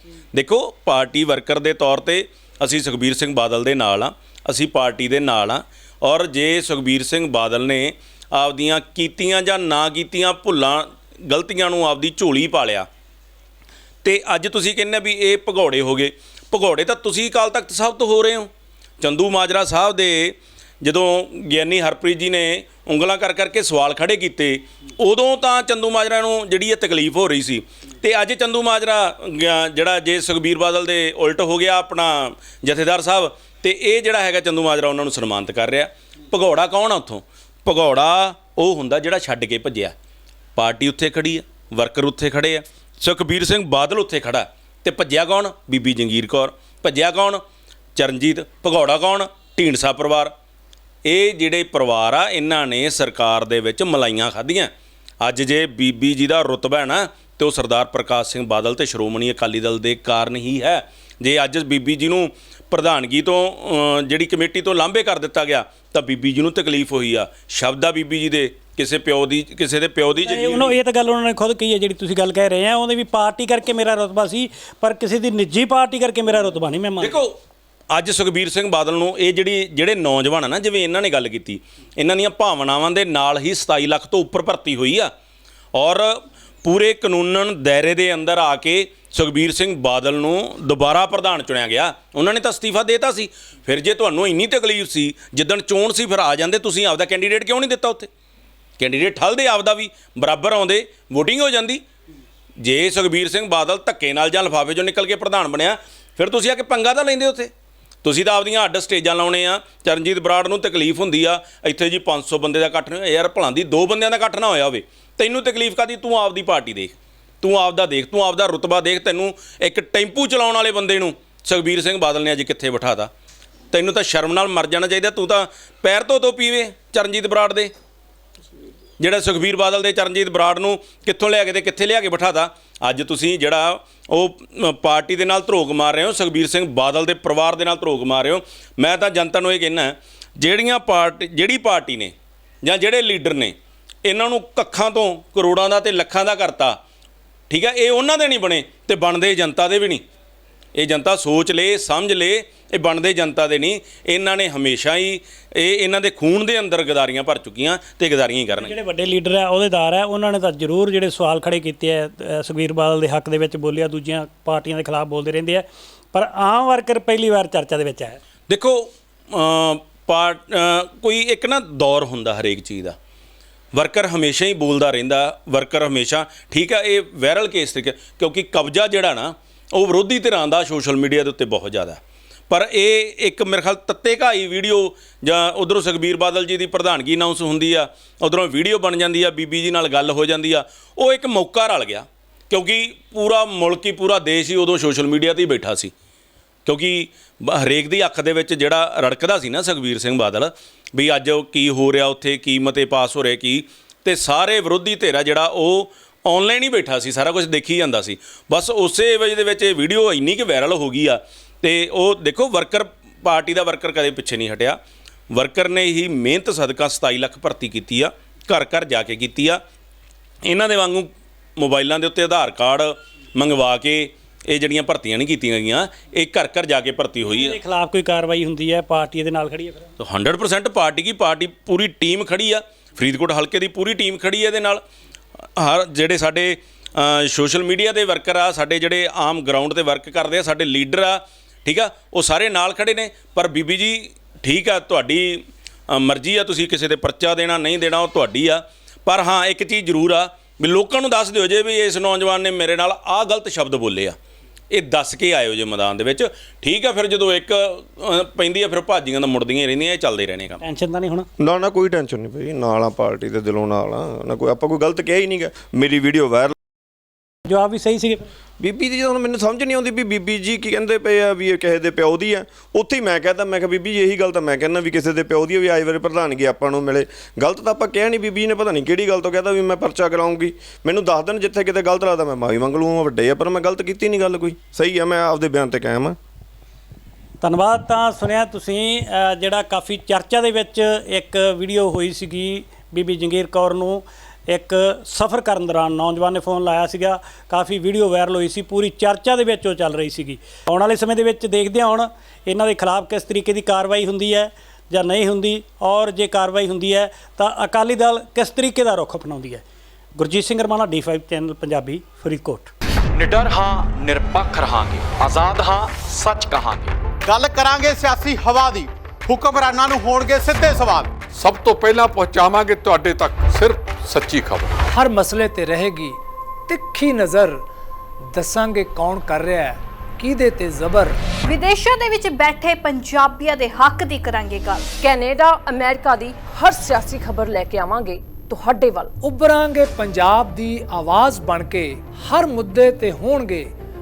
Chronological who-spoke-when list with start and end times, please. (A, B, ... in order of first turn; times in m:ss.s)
0:00.3-0:12.9 A
0:14.0-0:39.9 A
0:40.6-0:47.4 A
0:48.0-0:50.3 A
0:51.0-0:54.7 A
0:55.2-1:10.8 A
1:10.2-1:17.2 B
1:17.0-1:17.3 A
1:17.9-1:25.1 A
1:25.8-1:38.1 A
1:38.8-1:41.8 A
1:42.6-1:47.5 A
1:48.0-2:03.1 A
2:03.7-2:07.7 A
2:09.0-2:23.5 A
2:24.0-2:26.8 A
2:27.5-2:30.0 A
2:30.8-2:38.7 A
2:38.6-2:48.2 B
2:48.5-2:52.9 A
2:53.8-3:15.9 A
3:16.6-3:34.8 A
3:35.3-3:39.6 A
3:40.5-3:47.6 A
3:47.3-3:49.9 B
3:50.0-3:54.8 A
3:55.6-4:14.2 A
4:14.7-4:20.6 A
4:20.6-4:21.3 B
4:21.4-4:26.5 C
4:27.5-4:28.2 B
4:28.6-4:46.2 C
4:47.4-5:09.6 B
5:10.2-5:12.7 B
5:13.1-5:16.9 D
5:17.2-5:21.2 E
5:21.2-5:24.7 F
5:24.9-5:27.6 G
5:28.3-5:31.2 G
5:31.5-5:34.9 H
5:35.0-5:39.1 I
5:39.2-5:43.7 G